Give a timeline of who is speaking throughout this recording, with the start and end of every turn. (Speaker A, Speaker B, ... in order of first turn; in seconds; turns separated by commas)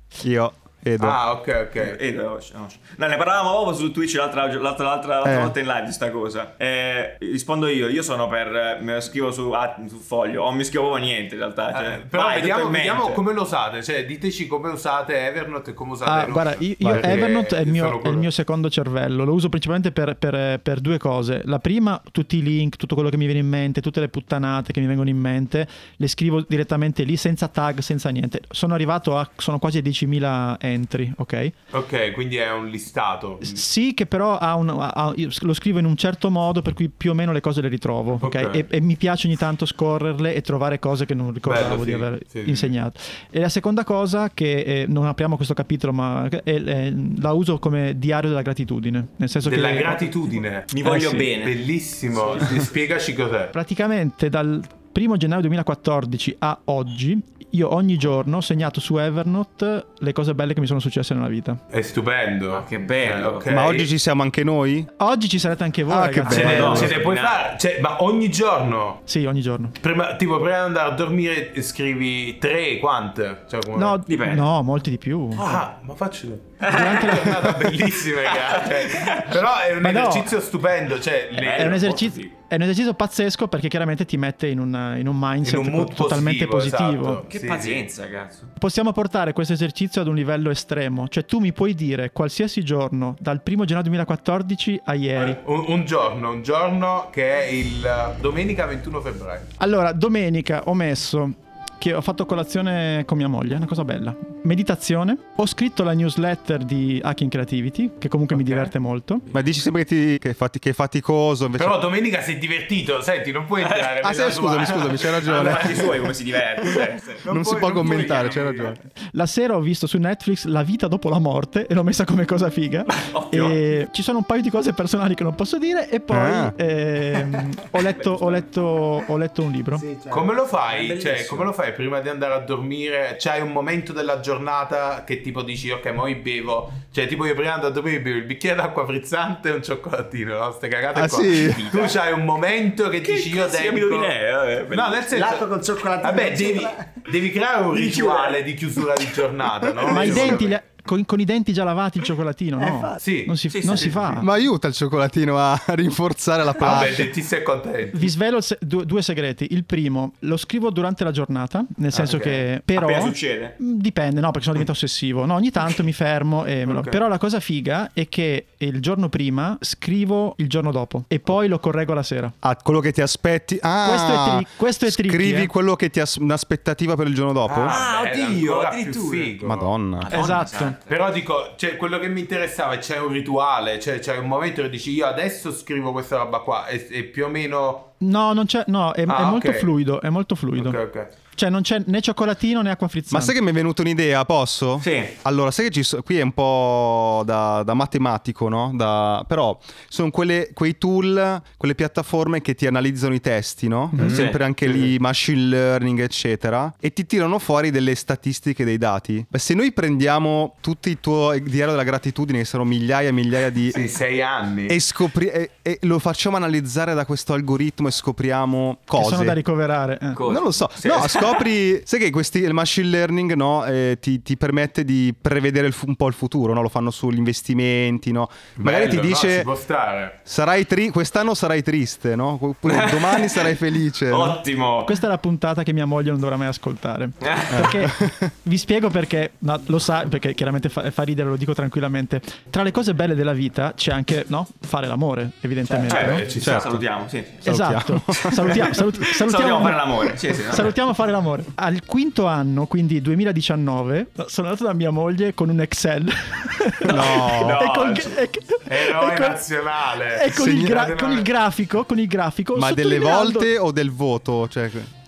Speaker A: 0.2-1.2, Speaker B: 1.0-2.0, Speaker C: 1.8-13.2, Speaker A: 5.2-5.5, Speaker B: 11.7-18.3, Speaker D: 16.0-31.5, Speaker B: 31.7-33.6, Speaker D: 33.4-50.1, Speaker B: 38.2-38.6, Speaker B: 41.4-42.7, Speaker B: 49.4-50.7, Speaker C: 50.7-51.6, Speaker D: 50.8-51.3, Speaker B: 51.3-53.5, Speaker C: 52.2-52.6, Speaker D: 53.5-61.6, Speaker B: 61.7-63.9, Speaker C: 62.5-63.5, Speaker A: 63.5-64.9, Speaker D: 65.0-66.9, Speaker A: 65.9-67.0, Speaker C: 66.3-67.4, Speaker B: 66.3-69.0, Speaker D: 69.1-69.8, Speaker B: 69.8-74.0, Speaker D: 73.7-75.5, Speaker C: 74.0-74.4, Speaker B: 75.4-81.8, Speaker C: 76.6-79.4, Speaker D: 76.7-77.3, Speaker D: 79.8-80.3, Speaker C: 81.3-82.3, Speaker D: 81.5-87.2, Speaker B: 85.4-87.8, Speaker C: 87.3-88.5, Speaker D: 88.6-95.4, Speaker B: 95.2-99.5, Speaker D: 99.6-109.2, Speaker B: 108.3-108.6, Speaker A: 109.3-111.8, Speaker B: 111.6-115.8, Speaker C: 113.6-114.0, Speaker A: 114.0-115.9, Speaker C: 114.7-117.2, Speaker B: 117.2-118.8, Speaker A: 117.3-118.8, Speaker D: 119.1-129.8, Speaker C: 122.9-123.6, Speaker A: 126.1-126.5, Speaker C: 128.1-128.4, Speaker E: 129.7-130.4, Speaker B: 130.1-144.1, Speaker C: 130.7-131.5, Speaker A: 140.9-141.6, Speaker C: 141.6-141.9, Speaker C: 143.0-145.0, Speaker B: 144.7-145.5, Speaker E: 145.1-147.0, Speaker B: 146.0-150.6, Speaker C: 147.7-148.4, Speaker D: 149.9-154.2, Speaker E: 152.6-153.0, Speaker B: 153.0-154.2, Speaker C: 153.5-154.2, Speaker A: 154.2-157.1, Speaker B: 156.6-158.1, Speaker D: 157.9-172.3, Speaker B: 161.9-162.4, Speaker C: 162.7-163.6, Speaker B: 166.7-167.0, Speaker A: 172.4-177.8, Speaker D: 173.8-175.5, Speaker B: 177.4-179.7, Speaker C: 177.6-179.3, Speaker A: 179.4-180.1, Speaker C: 180.0-180.9, Speaker D: 180.1-180.7, Speaker B: 180.8-187.9, Speaker D: 188.0-190.8, Speaker B: 189.1-189.7, Speaker B: 190.5-191.1, Speaker D: 191.3-193.3, Speaker A: 193.1-213.8, Speaker C: 194.8-195.1, Speaker C: 204.0-204.4, Speaker B: 204.0-204.9, Speaker B: 213.7-214.8, Speaker A: 214.7-219.4, Speaker D: 218.9-220.2, Speaker C: 220.2-221.5, Speaker A: 220.2-229.5, Speaker B: 228.6-230.2, Speaker A: 230.2-234.4, Speaker C: 232.6-233.6, Speaker C: 234.1-235.0, Speaker D: 234.8-246.2, Speaker C: 237.2-237.6, Speaker A: 237.5-238.3, Speaker B: 245.8-246.7, Speaker C: 245.8-247.4, Speaker A: 246.4-246.8, Speaker A: 247.4-248.8, Speaker D: 247.4-259.4, Speaker C: 249.1-250.7, Speaker C: 256.9-258.2, Speaker A: 256.9-257.6, Speaker B: 258.7-261.3, Speaker D: 260.0-263.5, Speaker A: 260.3-260.9, Speaker A: 262.5-264.9